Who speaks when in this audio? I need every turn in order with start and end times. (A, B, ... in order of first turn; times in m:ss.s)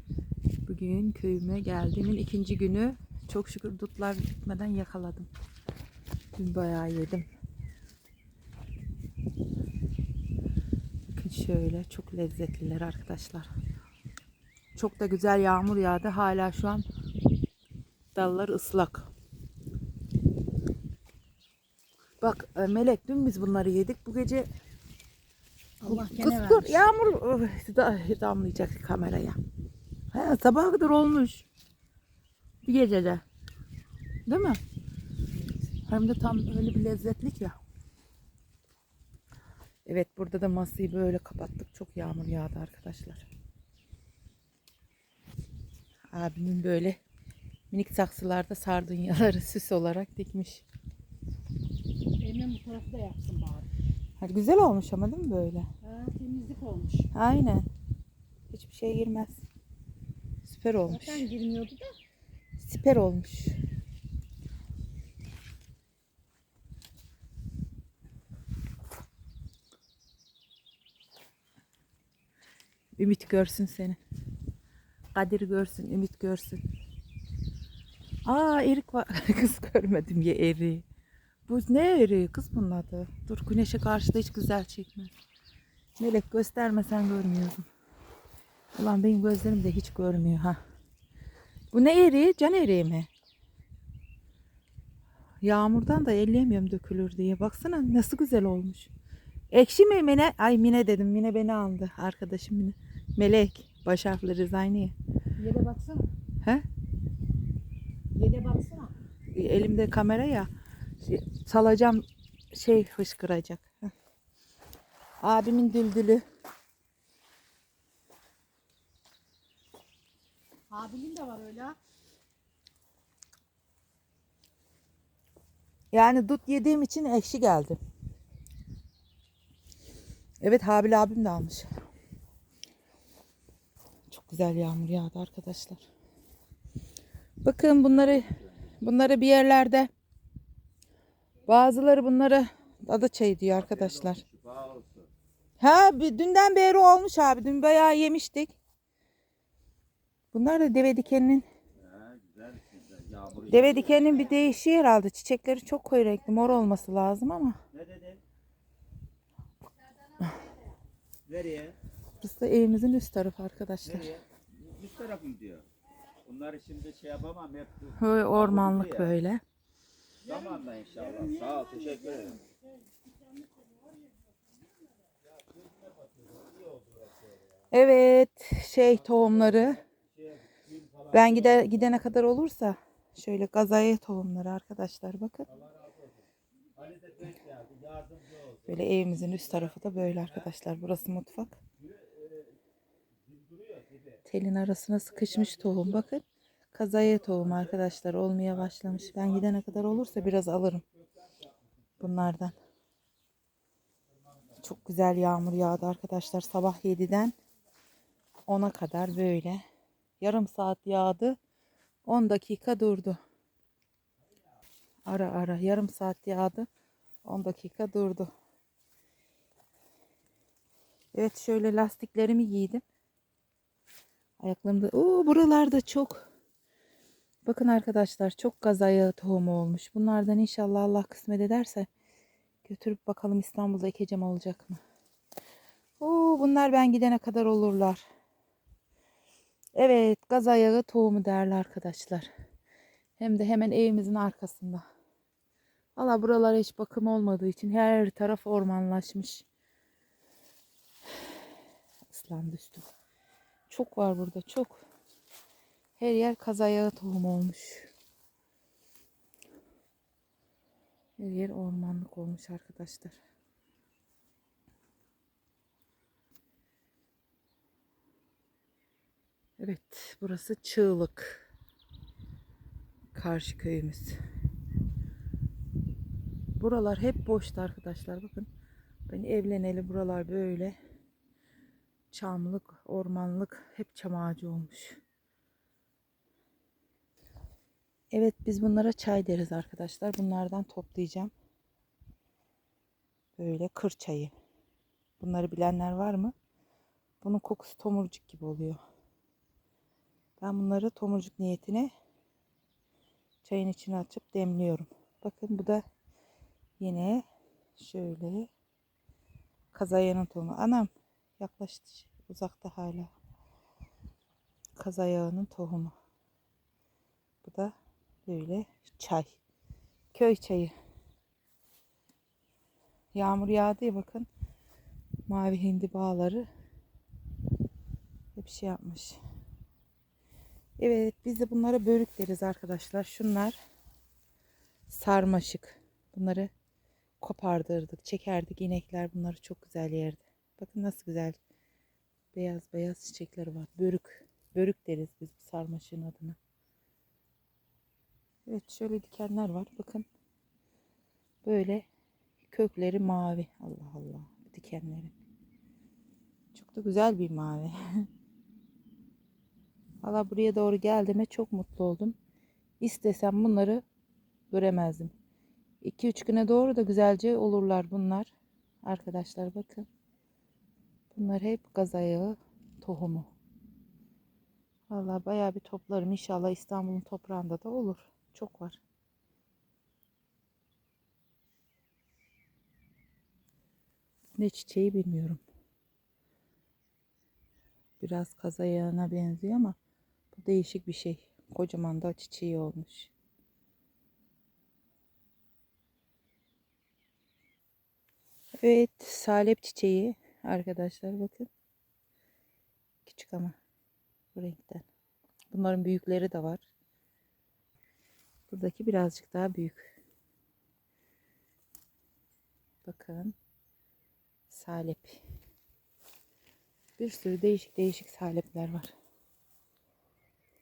0:00.6-0:05.3 A
0:06.4-0:07.3 A
0:11.1-0:13.5 A
0:14.7-0:16.8 A
0:18.1-0:19.1 A
0:22.2-0:24.5 A
0:25.8-0:26.8 B
0:25.8-0:29.4 A
0:30.1-0:31.4 A
0:32.6-0:33.2 A
0:34.2-0:34.6 A
0:35.9-0:37.6 A
0:39.8-0:43.2 A
0:46.1-0:47.0 A
0:47.7-0:50.6 A
0:52.2-0:53.7 B
0:54.2-0:55.7 A
0:55.8-0:57.1 B
0:57.1-0:57.6 A
0:58.5-0:59.4 A
1:00.4-1:01.3 A
1:00.9-1:01.9 B
1:02.6-1:03.6 A
1:13.0-1:14.0 A
1:15.1-1:16.6 A
1:18.2-1:20.8 A
1:21.5-1:25.1 A
1:26.0-1:27.7 A
1:28.7-1:30.6 A
1:31.7-1:33.1 A
1:35.4-1:38.9 A
1:39.5-1:44.9 A
1:45.4-1:46.1 B
1:48.1-1:48.9 B
1:49.3-1:50.5 A
1:51.0-1:53.9 A
1:55.2-1:56.2 A
2:00.7-2:01.8 B
2:05.9-2:07.8 A
2:10.4-2:11.7 A
2:14.1-2:15.8 A
2:17.4-2:19.9 A
2:21.5-2:24.2 A
2:24.2-2:25.1 C
2:25.6-2:28.5 A
2:30.3-2:31.4 A
2:31.9-2:33.5 C
2:33.5-2:37.6 A
2:37.7-2:38.2 C
2:41.3-2:41.8 C
2:42.2-2:44.1 A
2:44.1-2:45.6 C
2:46.2-2:47.9 C
2:47.9-2:49.4 A
2:50.3-2:54.1 B
2:50.3-2:52.4 C
2:55.8-2:57.2 C
2:57.7-2:59.8 A
3:00.4-3:01.1 C
3:01.1-3:05.4 A
3:06.8-3:08.4 C
3:08.6-3:11.6 A
3:12.0-3:12.4 C
3:13.3-3:14.0 C
3:14.2-3:20.8 A
3:22.0-3:22.6 A
3:24.6-3:27.3 A
3:28.5-3:29.6 A
3:30.2-3:31.4 A
3:32.0-3:33.2 A
3:35.0-3:36.7 A
3:37.2-3:38.3 A
3:41.1-3:42.8 A
3:44.4-3:46.2 A
3:47.4-3:51.9 A
3:52.6-3:54.8 A
3:56.0-3:58.0 A
3:59.7-4:02.3 A
4:03.2-4:04.8 A
4:06.0-4:09.4 A
4:12.1-4:12.9 A
4:13.7-4:14.8 A
4:16.0-4:17.9 A
4:21.2-4:23.2 A
4:29.6-4:31.5 A
4:33.1-4:34.2 A
4:36.6-4:38.5 A
4:39.1-4:40.8 A
4:42.1-4:45.0 A
4:48.1-4:51.3 A
4:53.4-4:54.3 A
4:55.2-4:56.3 A
4:57.2-4:58.8 A
5:00.4-5:01.9 A
5:03.4-5:05.8 A
5:06.8-5:07.2 A
5:07.8-5:08.5 A
5:09.7-5:13.1 A
5:14.8-5:15.9 A
5:17.4-5:17.7 A
5:18.2-5:19.4 A
5:20.1-5:20.7 A
5:23.1-5:24.3 A
5:25.3-5:26.4 A
5:28.4-5:29.2 A
5:30.8-5:33.6 A
5:34.9-5:36.5 A
5:37.2-5:41.4 A
5:42.3-5:46.4 A
5:48.4-5:50.0 A
5:51.4-5:51.8 A
5:52.5-5:55.1 A
5:56.5-5:58.0 A
6:00.0-6:02.2 A
6:02.8-6:03.8 A
6:04.5-6:05.1 A
6:05.8-6:08.3 A
6:08.8-6:09.9 A
6:11.1-6:13.3 A
6:14.9-6:18.8 A
6:24.4-6:25.4 A
6:28.0-6:29.8 A
6:30.3-6:33.1 A
6:38.6-6:41.5 A
6:43.0-6:43.6 A
6:44.3-6:44.8 A
6:45.5-6:46.6 A
6:48.5-6:49.9 A
6:52.8-6:53.4 A
6:54.5-6:55.2 A
6:57.0-6:58.9 A